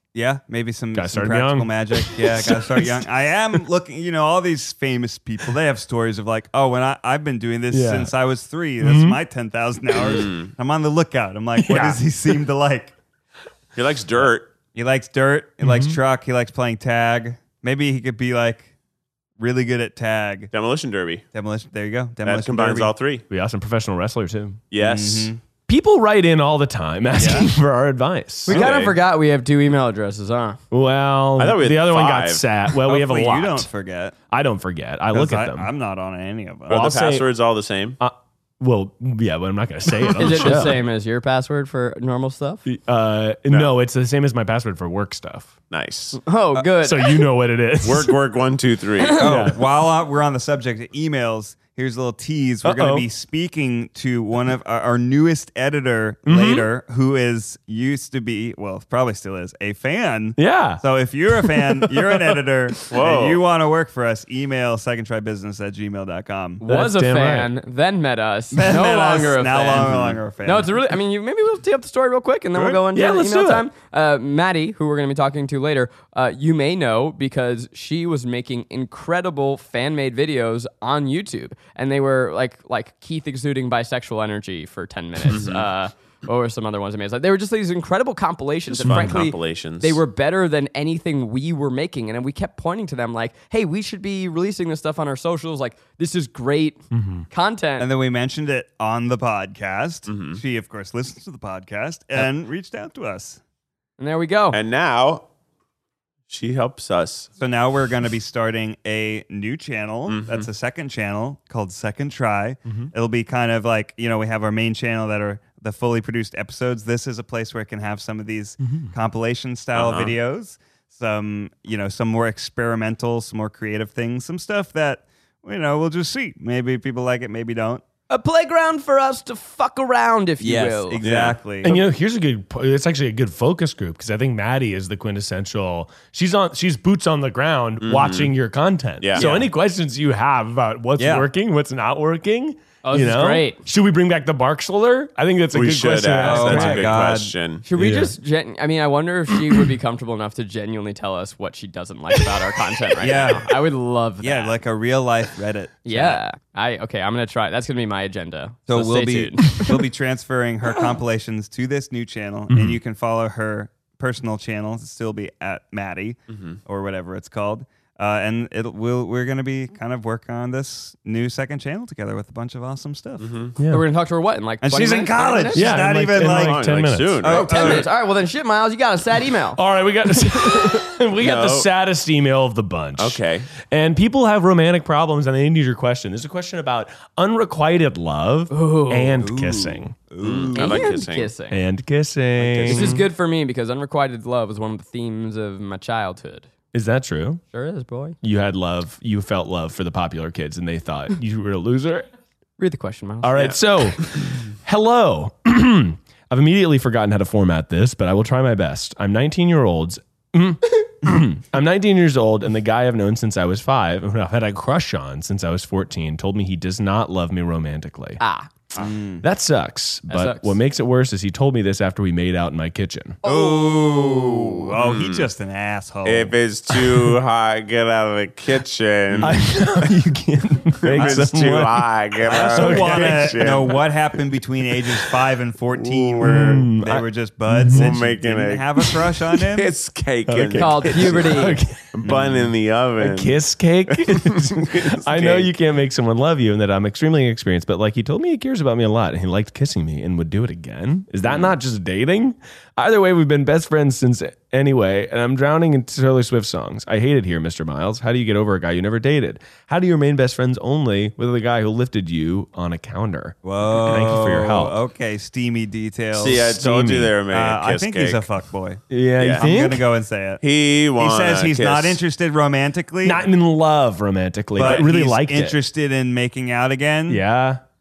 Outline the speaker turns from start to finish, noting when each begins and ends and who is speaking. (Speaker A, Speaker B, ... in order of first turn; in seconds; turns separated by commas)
Speaker A: 0.1-12.9, Speaker B: 0.9-3.1, Speaker B: 7.7-8.1, Speaker B: 8.8-9.2, Speaker C: 10.0-10.4, Speaker B: 11.6-12.4, Speaker C: 13.8-14.5, Speaker A: 14.7-18.7, Speaker B: 15.6-16.0, Speaker A: 19.4-20.5, Speaker C: 20.5-21.2, Speaker A: 21.3-22.9, Speaker C: 22.2-23.2, Speaker B: 23.3-24.6, Speaker C: 24.7-25.3, Speaker A: 24.8-25.4, Speaker B: 25.7-28.6, Speaker A: 27.2-27.5, Speaker D: 28.5-30.6, Speaker C: 28.5-29.0, Speaker B: 30.7-33.7, Speaker C: 31.4-32.5, Speaker A: 32.8-34.2, Speaker B: 34.3-35.7, Speaker A: 35.1-36.9, Speaker C: 36.7-38.0, Speaker B: 36.7-37.3, Speaker B: 38.0-40.8, Speaker D: 40.2-42.6, Speaker B: 42.6-45.5, Speaker C: 45.7-46.2, Speaker D: 46.2-47.2, Speaker B: 46.8-48.2, Speaker C: 47.8-49.4, Speaker B: 49.2-49.6, Speaker A: 49.2-66.6, Speaker B: 52.6-53.1, Speaker B: 56.3-56.7, Speaker B: 60.4-60.8, Speaker B: 61.4-61.8, Speaker C: 62.9-63.4, Speaker D: 66.6-69.9, Speaker B: 66.7-67.5, Speaker A: 68.5-70.8, Speaker C: 69.7-70.2, Speaker D: 70.4-97.9, Speaker B: 72.9-73.7, Speaker C: 85.3-85.7, Speaker C: 88.7-90.0, Speaker B: 88.8-89.2, Speaker B: 96.9-97.3, Speaker A: 97.8-103.4, Speaker C: 100.1-100.4, Speaker D: 104.0-104.6, Speaker C: 104.5-105.3, Speaker C: 106.3-107.3, Speaker A: 107.4-127.8, Speaker C: 110.1-110.5, Speaker B: 118.6-118.9, Speaker C: 119.7-120.2, Speaker D: 128.1-131.0, Speaker A: 130.4-131.8, Speaker C: 131.0-131.4, Speaker B: 131.6-147.0, Speaker C: 137.8-138.3, Speaker C: 139.0-139.3, Speaker A: 139.2-139.5, Speaker A: 141.0-141.3, Speaker D: 142.8-143.6, Speaker C: 145.5-147.6, Speaker A: 146.2-147.3, Speaker D: 147.7-154.6, Speaker B: 147.8-148.1, Speaker A: 153.0-153.6, Speaker A: 154.2-156.2, Speaker D: 155.8-159.7, Speaker A: 158.7-173.3, Speaker B: 162.5-162.8, Speaker C: 166.3-166.6, Speaker C: 173.2-173.6, Speaker B: 173.6-173.8, Speaker D: 173.7-175.7, Speaker A: 174.6-176.7, Speaker B: 175.5-177.4, Speaker C: 176.1-177.9, Speaker A: 177.2-177.9, Speaker D: 177.3-179.6, Speaker B: 179.6-190.0, Speaker C: 181.2-181.7, Speaker C: 183.0-183.5, Speaker D: 188.5-189.2, Speaker A: 189.2-190.9, Speaker C: 190.2-191.3, Speaker D: 190.6-191.6, Speaker B: 191.5-193.0, Speaker C: 192.4-193.0, Speaker D: 192.7-196.5, Speaker B: 196.7-197.4, Speaker D: 197.5-198.2, Speaker B: 198.2-202.1, Speaker D: 202.6-203.6, Speaker B: 203.2-218.2, Speaker D: 218.2-218.5, Speaker A: 218.8-219.2, Speaker B: 219.2-223.2, Speaker D: 220.1-220.6, Speaker A: 223.2-226.3, Speaker D: 223.3-223.7, Speaker C: 223.9-225.3, Speaker C: 226.1-229.9, Speaker A: 229.1-229.4, Speaker B: 229.2-233.7, Speaker C: 230.8-233.9, Speaker A: 230.9-231.4, Speaker A: 232.2-239.7, Speaker C: 235.7-236.6, Speaker B: 236.2-238.0, Speaker C: 237.7-245.5, Speaker B: 240.3-241.8, Speaker D: 240.6-241.6, Speaker A: 242.0-242.5, Speaker B: 243.0-264.8, Speaker C: 251.3-251.5, Speaker A: 263.4-266.5, Speaker C: 266.1-268.3, Speaker B: 266.3-267.1, Speaker A: 267.3-270.4, Speaker B: 268.9-269.8, Speaker C: 269.2-269.5, Speaker C: 270.4-272.0, Speaker A: 271.0-273.2, Speaker B: 273.0-275.6, Speaker A: 274.6-277.2, Speaker C: 274.6-274.9, Speaker B: 277.1-277.6